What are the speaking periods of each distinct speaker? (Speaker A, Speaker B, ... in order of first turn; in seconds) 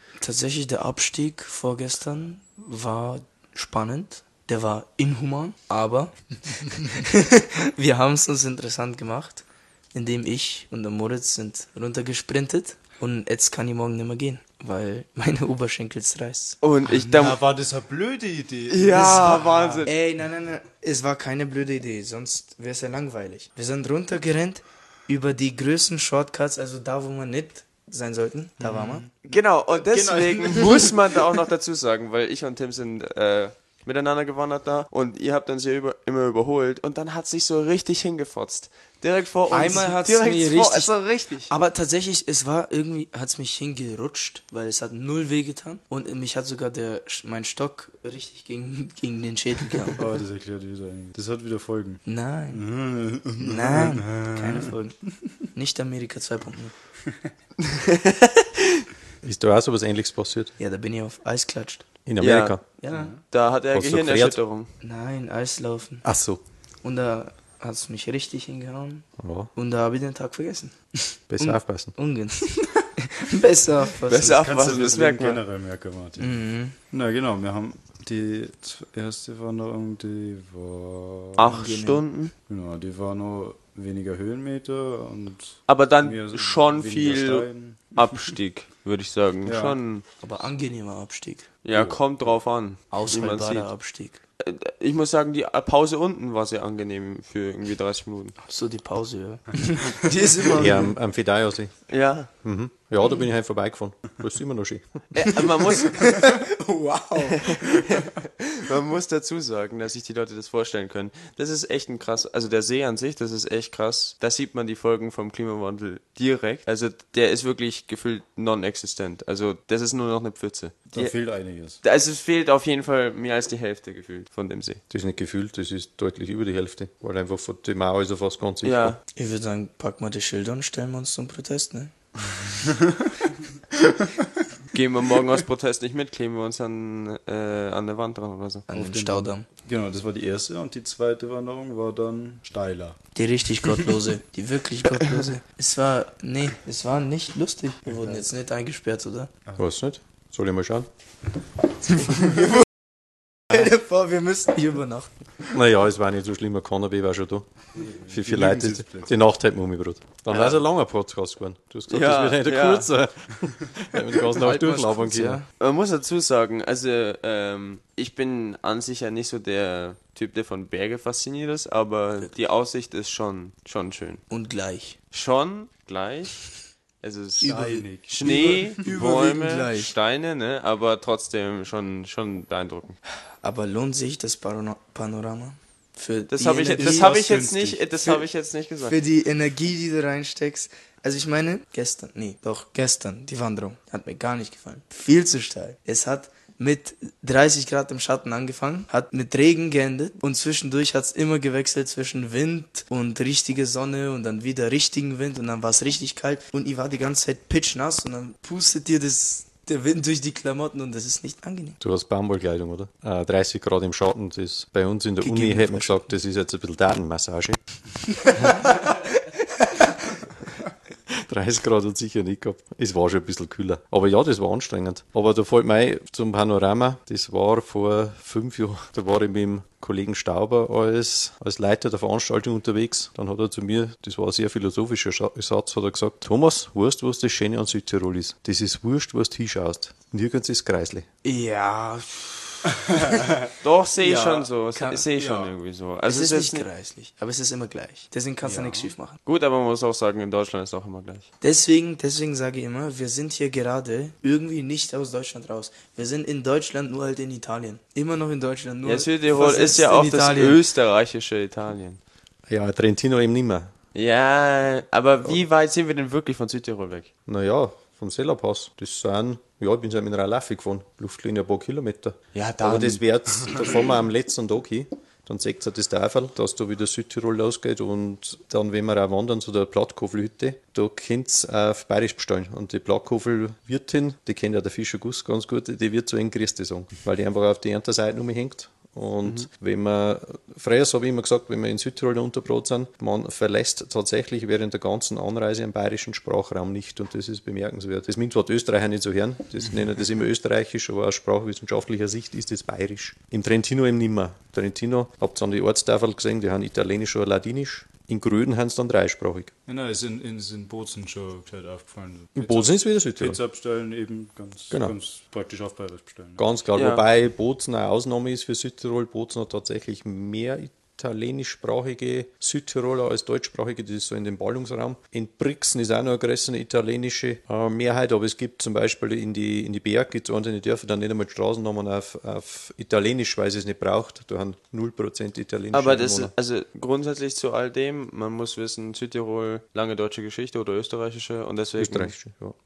Speaker A: 0.2-16.6, 19.8-29.0, 39.5-50.0, 52.0-52.6, 53.4-55.0, 55.5-56.7, 60.6-61.8, 62.8-63.1, 64.8-66.0, 66.8-74.4, 76.2-76.8, 81.5-82.0, 90.2-91.5, 92.9-94.2, 98.5-101.0, 105.8-107.6, 129.1-131.9, 138.7-139.4, 143.1-149.3, 153.5-155.1, 164.3-165.4, 174.3-175.0, 177.4-179.9, 183.4-187.1, 188.8-211.8, 215.2-216.0, 218.4-219.9, 241.2-243.3, 244.0-245.1, 246.0-249.2, 251.4-260.6
Speaker B: 16.6-17.4, 18.7-19.9, 29.2-41.5, 57.6-58.8, 62.2-62.6, 63.3-64.7, 74.1-75.4, 81.4-82.3, 85.7-90.0, 91.6-93.7, 94.4-98.4, 101.9-102.3, 105.1-106.4, 107.3-121.2, 121.8-124.8, 128.6-129.0, 134.7-138.7, 160.3-160.6, 161.9-162.9, 165.6-174.2, 175.1-176.5, 177.0-183.0, 186.3-188.9, 243.6-246.7, 249.2-251.3, 258.8-262.0, 263.9-267.1, 272.3-273.0, 316.7-317.0, 335.7-342.2
Speaker C: 16.9-19.9, 28.6-31.2, 50.0-54.7, 62.9-63.2, 74.2-81.5, 82.5-88.3, 89.4-89.8, 91.7-92.0, 120.9-121.8, 138.7-143.0, 147.9-148.2, 157.8-159.1, 177.4-178.9, 186.8-187.8, 242.9-243.5, 245.2-245.5, 248.4-248.9, 309.6-316.4
Speaker D: 59.2-60.5, 62.0-62.6, 63.7-64.4, 66.0-66.4, 69.2-69.5, 71.3-71.9, 100.5-105.3, 124.9-128.9, 149.6-150.9, 155.5-157.5, 158.1-165.4, 211.8-217.6, 221.2-241.1, 262.5-263.7, 267.3-309.5, 312.4-313.4, 316.4-336.3, 341.8-342.5